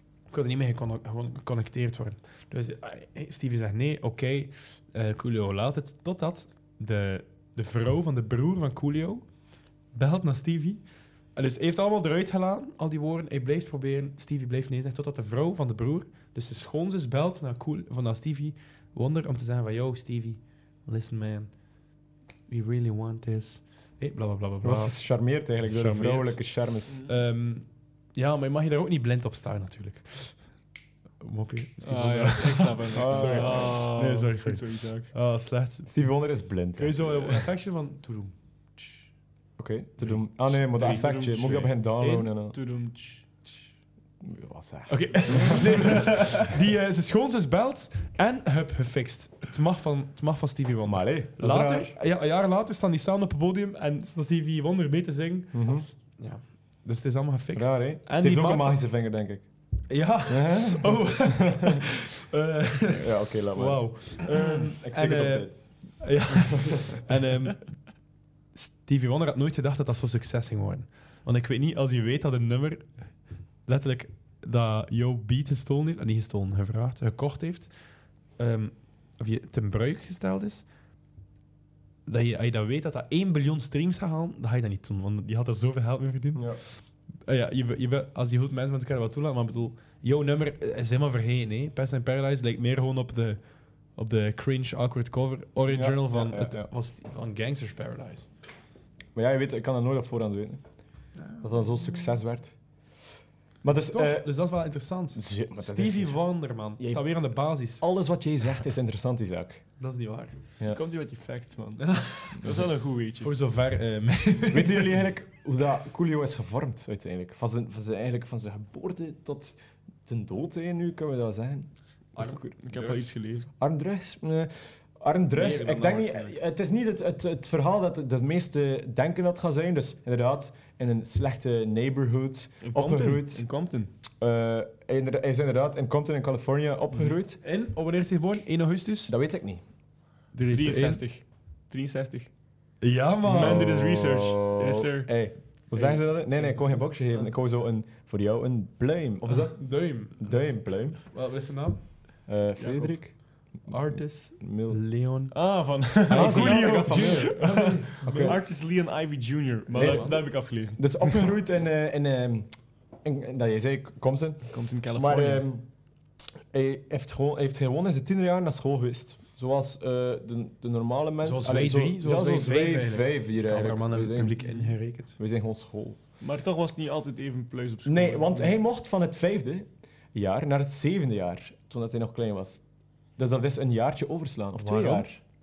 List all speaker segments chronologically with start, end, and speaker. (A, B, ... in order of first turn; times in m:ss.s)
0:00.3-0:09.3 A
0:09.9-0:10.8 A
0:11.3-0:21.6 A
0:22.5-0:26.5 A
0:24.6-0:27.0 B
0:27.0-0:30.6 A
0:31.2-0:36.1 A
0:31.8-0:35.1 C
0:32.9-0:33.8 B
0:35.8-0:37.1 B
0:36.8-0:39.1 A
0:39.6-0:42.6 B
0:40.0-0:41.0 A
0:40.6-0:43.5 C
0:42.0-0:42.3 A
0:44.2-0:46.0 B
0:44.9-0:58.8 A
0:45.4-0:46.4 C
0:50.8-0:52.0 B
0:55.5-0:55.9 B
0:57.5-0:59.5 B
0:59.9-1:07.9 A
1:00.3-1:01.8 B
1:03.0-1:05.7 B
1:08.5-1:17.7 A
1:18.4-1:20.7 A
1:22.0-1:33.4 A
1:26.3-1:26.6 B
1:33.9-1:38.3 A
1:35.7-1:36.7 B
1:39.1-1:40.6 B
1:41.2-1:42.1 A
1:41.3-1:42.6 B
1:43.6-1:44.3 B
1:43.9-1:47.8 A
1:45.1-1:49.6 B
1:49.8-1:50.5 A
1:50.6-1:53.3 C
1:51.8-1:52.5 A
1:53.2-1:55.0 A
1:54.5-2:02.6 B
2:02.2-2:03.0 A
2:02.6-2:03.5 C
2:03.6-2:13.5 B
2:05.3-2:06.4 A
2:12.6-2:13.9 C
2:14.2-2:17.4 B
2:17.4-2:19.1 A
2:19.1-2:19.6 B
2:20.3-2:21.0 A
2:20.5-2:22.3 C
2:22.8-2:23.6 A
2:23.2-2:26.0 C
2:23.3-2:31.0 B
2:26.4-2:26.9 A
2:29.2-2:31.9 A
2:32.3-2:34.8 B
2:32.6-2:33.0 C
2:33.7-2:35.4 A
2:35.3-2:41.3 C
2:36.0-2:38.4 A
2:36.1-2:38.4 B
2:39.7-2:40.2 A
2:39.7-2:42.5 B
2:43.0-2:45.6 B
2:44.5-2:45.5 C
2:46.5-2:54.4 B
2:51.2-2:55.2 A
2:55.1-2:56.0 B
2:56.2-2:58.6 C
2:57.8-3:02.6 B
3:03.2-3:05.2 B
3:04.6-3:05.1 A